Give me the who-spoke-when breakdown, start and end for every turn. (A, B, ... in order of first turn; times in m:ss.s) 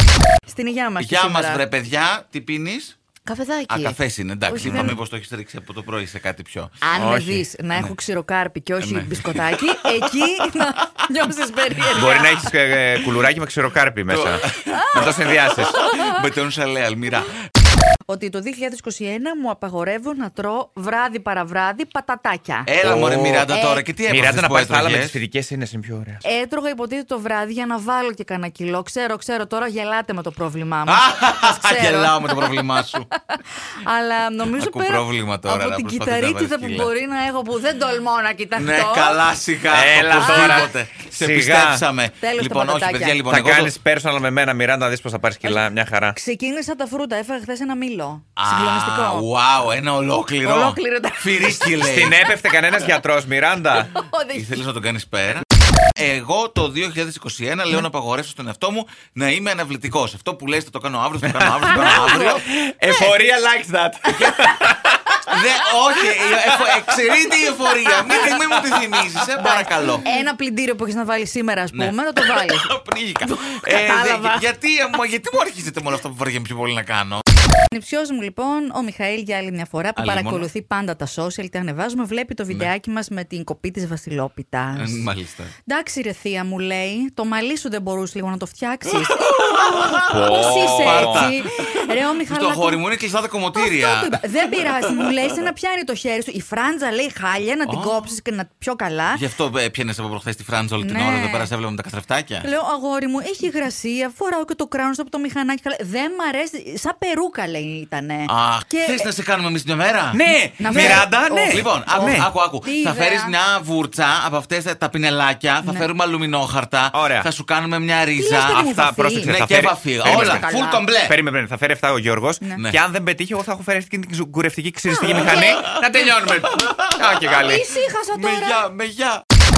0:00.4-0:01.6 A
0:01.0-0:03.0 B
0:03.2-0:05.0 A
0:03.7-0:06.8 B
0:04.6-0:05.0 C
0:06.8-0:12.5 A
0:06.9-0:07.4 C
0:08.8-0:10.6 B
0:11.8-0:15.8 C
0:14.1-0:17.4 B
0:14.7-0:15.0 A
0:15.9-0:16.2 A
0:18.1-0:22.7 A
0:22.6-0:25.2 B
0:22.8-0:23.5 C
0:23.5-0:23.8 A
0:24.1-0:26.2 C
0:26.2-0:39.2 A
0:30.9-0:33.1 B
0:34.5-0:36.9 B
0:38.6-0:43.7 B
0:39.7-0:41.8 C
0:42.2-0:43.2 A
0:43.2-0:46.2 C
0:45.4-0:49.3 A
0:48.4-0:52.2 B
0:50.4-0:51.8 A
0:51.8-0:54.0 C
0:53.9-0:54.6 A
0:54.3-1:02.5 B
1:01.2-1:05.4 C
1:01.8-1:02.4 A
1:05.3-1:10.1 B
1:06.2-1:07.3 C
1:07.8-1:09.2 C
1:09.3-1:12.7 A
1:11.7-1:17.2 B
1:13.2-1:14.4 A
1:17.7-1:25.1 A
1:20.0-1:20.5 B
1:24.8-1:25.5 B
1:25.6-1:29.3 A
1:28.9-1:35.3 B
1:30.0-1:31.3 C
1:30.1-1:32.8 A
1:33.6-1:39.2 A
1:37.6-1:38.1 B
1:39.1-1:42.5 B
1:40.8-1:41.5 A
1:42.4-1:49.1 A
1:48.3-1:58.6 B
1:50.1-1:52.3 C
1:50.6-1:53.4 A
1:56.9-1:57.3 C
1:58.2-1:59.3 A
1:58.5-2:00.4 C
1:59.2-2:01.2 B
2:00.0-2:00.8 A
2:01.0-2:07.7 C
2:04.9-2:05.6 A
2:05.0-2:07.5 B
2:07.4-2:08.6 A
2:08.1-2:09.2 B